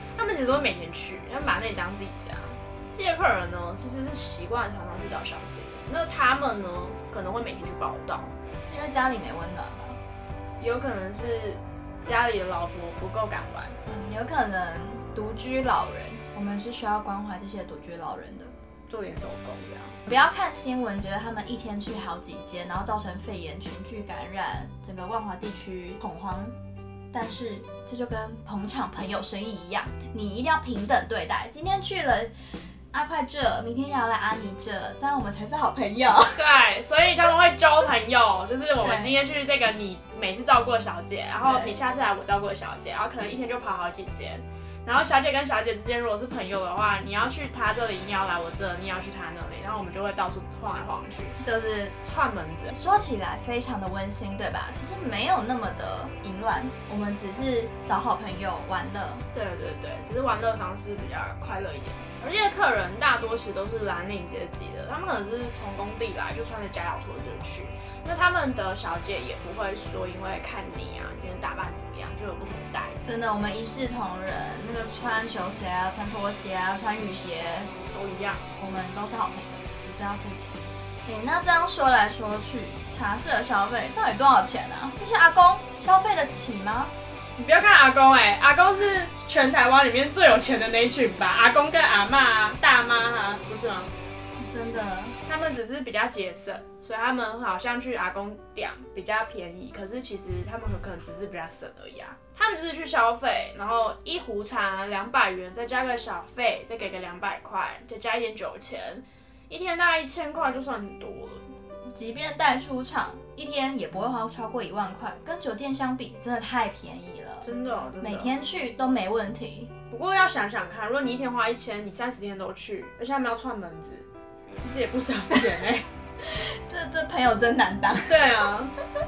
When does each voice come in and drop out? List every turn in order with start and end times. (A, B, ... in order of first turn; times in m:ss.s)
0:00.1-0:08.3 A
0:08.7-0:10.0 B
0:10.6-0:13.8 A
0:13.8-0:18.5 B
0:18.9-0:20.0 A
0:20.1-0:26.5 B
0:27.1-0:36.4 B
0:36.3-0:51.4 A
0:38.8-0:39.1 B
0:41.4-0:41.8 B
0:51.4-0:52.0 B
0:52.0-0:52.8 A
0:52.7-0:59.2 B
0:59.3-1:13.0 A
1:13.0-1:17.7 B
1:17.9-1:18.4 A
1:18.6-1:26.9 B
1:27.4-1:33.9 A
1:34.4-1:35.2 B
1:35.2-1:51.4 A
1:51.8-1:59.7 B
1:57.4-1:58.3 A
1:59.9-2:05.9 A
2:06.2-2:08.5 B
2:08.1-2:08.7 A